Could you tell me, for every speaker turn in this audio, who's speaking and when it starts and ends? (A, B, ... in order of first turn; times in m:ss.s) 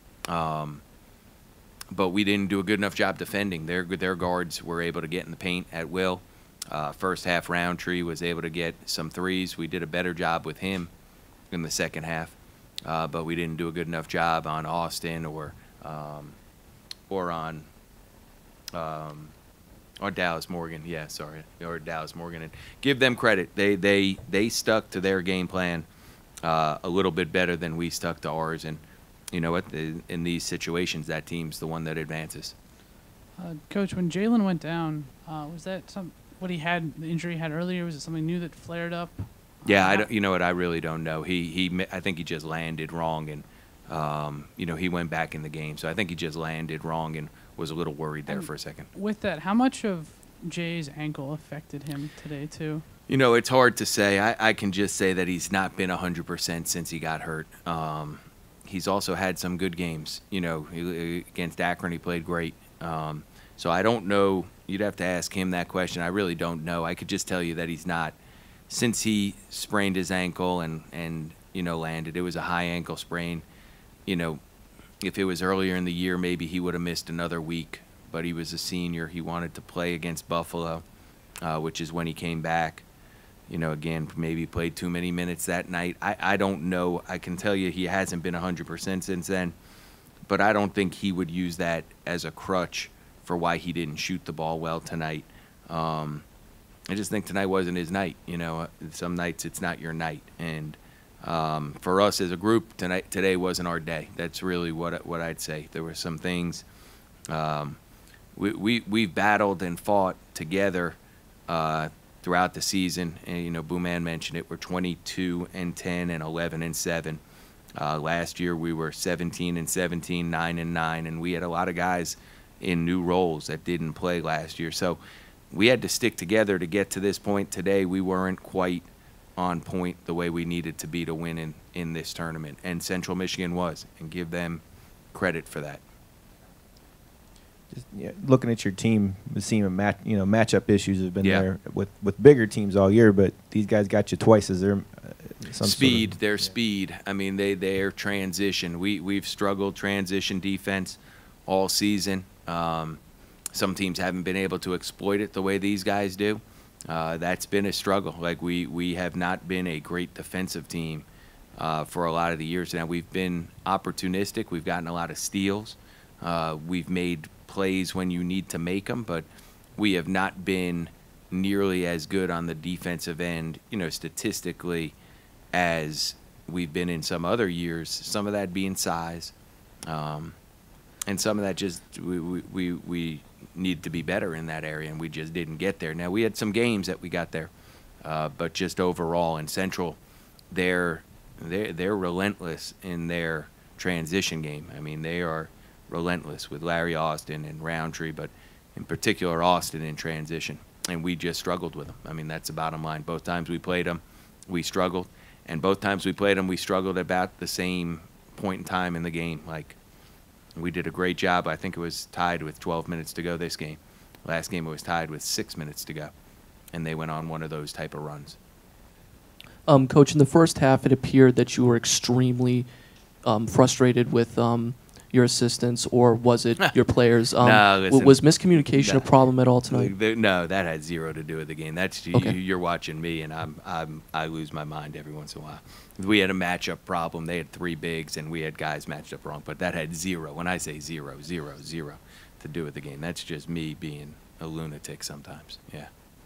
0:00.3-0:00.8 A
0:01.9-0:10.9 A
0:11.5-0:12.3 A
0:12.9-0:16.4 A
0:17.1-0:17.7 A
0:18.7-0:19.3 A
0:20.0-0:25.9 A
0:26.4-0:28.8 A
0:29.3-0:32.5 A
0:33.4-0:40.1 B
0:39.6-0:48.9 A
0:48.3-0:52.8 B
0:53.1-1:08.2 A
1:08.7-1:13.4 A
1:14.1-1:14.4 A
1:15.0-1:20.8 A
1:21.4-1:22.8 A
1:23.5-1:29.5 A
1:30.3-1:36.2 A
1:36.9-1:46.6 A
1:47.3-1:47.8 A
1:48.3-1:51.0 A
1:51.5-1:57.2 A
1:57.8-2:05.0 A
2:05.5-2:15.8 A
2:17.7-2:26.3 C
2:25.6-2:33.0 A
2:33.5-2:41.0 A
2:41.6-2:49.2 A
2:49.8-2:54.9 A
2:55.5-2:59.3 A
2:59.9-3:00.4 A
3:01.1-3:07.5 A
3:08.0-3:10.0 A
3:10.5-3:29.8 A
3:30.6-3:36.1 A
3:36.7-3:38.4 A
3:39.7-3:49.9 D
3:47.3-4:05.9 A
3:52.1-3:52.4 D